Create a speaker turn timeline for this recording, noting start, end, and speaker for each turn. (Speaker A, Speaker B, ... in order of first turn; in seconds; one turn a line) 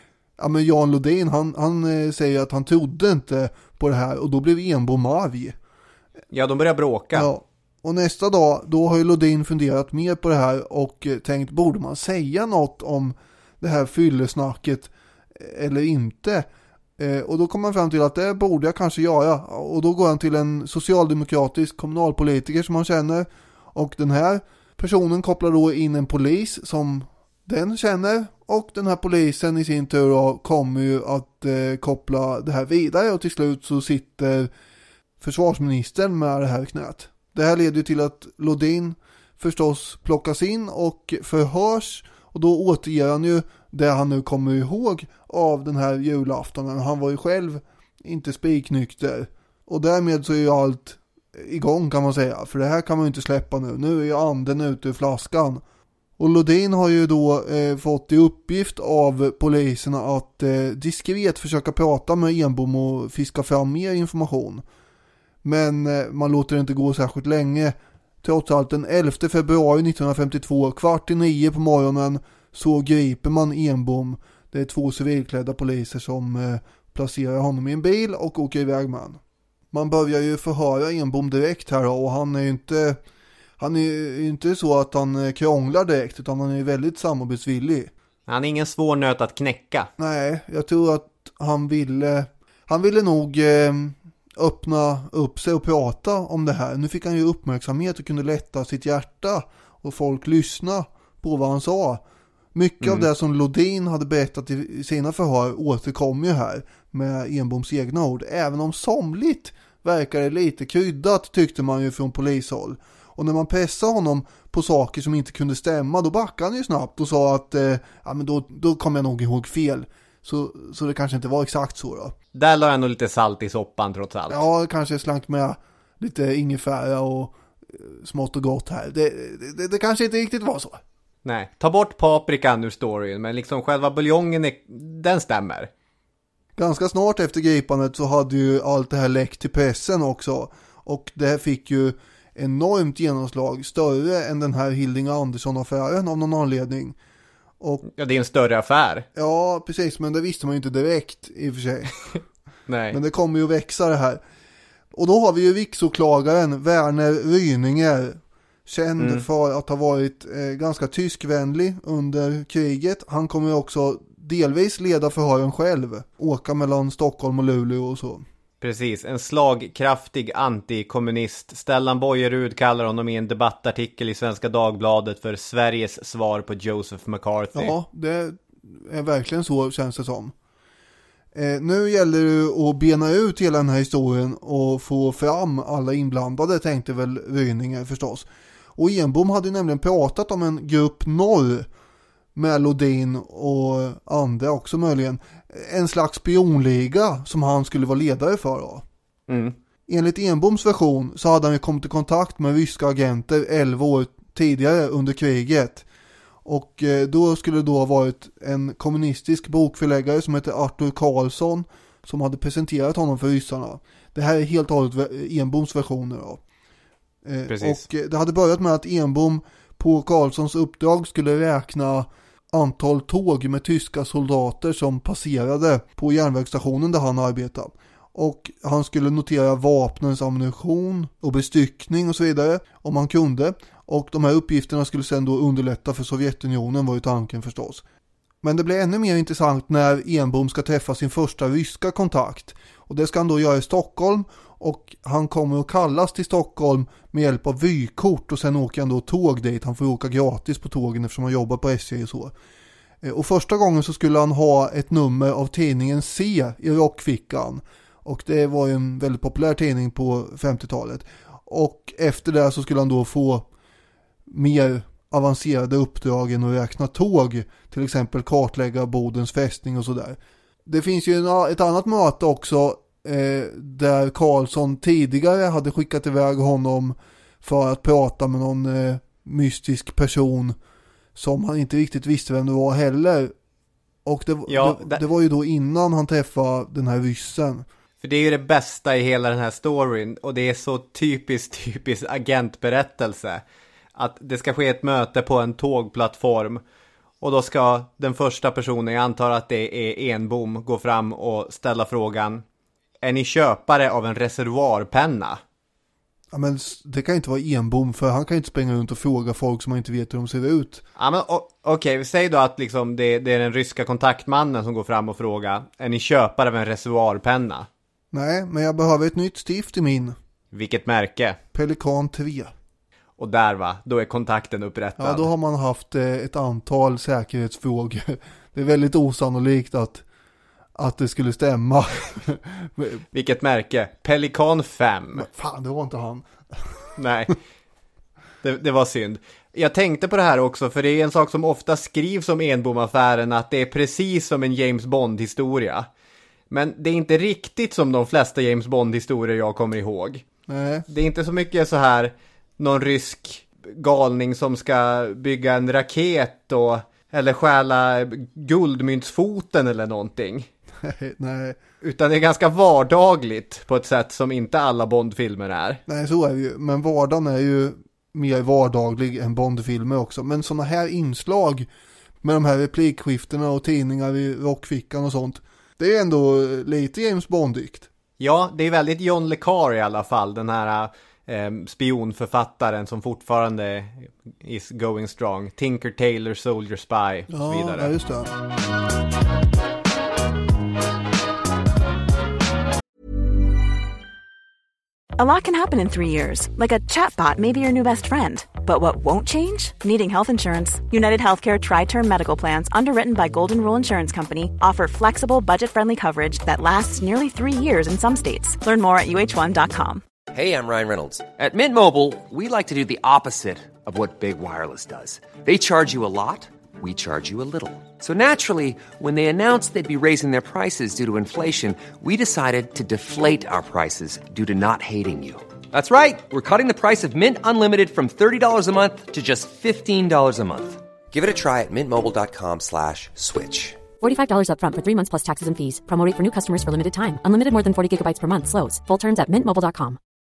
Speaker A: 0.4-5.5
Speaker B: 6.3-7.3
Speaker A: 7.1-34.5
Speaker A: 35.2-55.6
Speaker A: 56.2-64.6
Speaker A: 65.4-79.2
Speaker A: 79.7-83.0
Speaker A: 83.6-87.9
Speaker B: 88.3-89.9
Speaker A: 90.0-102.0
Speaker A: 102.5-122.1
Speaker B: 102.8-103.1
Speaker B: 122.3-124.4
Speaker A: 124.3-130.8
Speaker B: 131.2-135.7
Speaker A: 136.6-147.0
Speaker A: 147.6-147.8
Speaker B: 147.9-149.1
Speaker A: 149.1-151.9
Speaker B: 152.7-153.0
Speaker A: 152.9-154.2
Speaker A: 154.9-168.2
Speaker B: 159.0-159.2
Speaker B: 168.6-177.8
Speaker A: 177.5-180.3
Speaker A: 181.3-191.7
Speaker A: 192.3-198.8
Speaker B: 199.3-199.6
Speaker A: 199.9-205.9
Speaker A: 206.4-216.4
Speaker A: 217.2-237.8
Speaker B: 217.5-217.9
Speaker A: 238.4-252.3
Speaker A: 253.0-263.5
Speaker A: 264.3-280.6
Speaker A: 281.1-283.3
Speaker A: 284.0-287.6
Speaker B: 284.5-285.0
Speaker B: 288.0-293.4
Speaker B: 293.9-296.6
Speaker B: 297.2-302.4
Speaker B: 303.0-305.4
Speaker A: 306.3-310.8
Speaker B: 311.0-317.7
Speaker A: 318.1-320.1
Speaker B: 320.5-321.4
Speaker A: 321.5-322.5
Speaker B: 323.2-325.3
Speaker A: 325.0-330.0
Speaker A: 330.7-333.0
Speaker B: 333.1-335.2
Speaker A: 335.1-337.0
Speaker B: 337.0-337.4
Speaker B: 338.4-345.9
Speaker B: 346.5-350.2
Speaker A: 350.5-350.9
Speaker B: 350.9-360.5
Speaker A: 360.8-361.6
Speaker B: 361.8-365.8
Speaker A: 365.9-371.7
Speaker A: 372.2-377.9
Speaker B: 378.2-387.9
Speaker A: 387.3-388.3
Speaker C: 395.2-410.0
Speaker D: 410.3-433.8
Speaker E: 434.0-440.0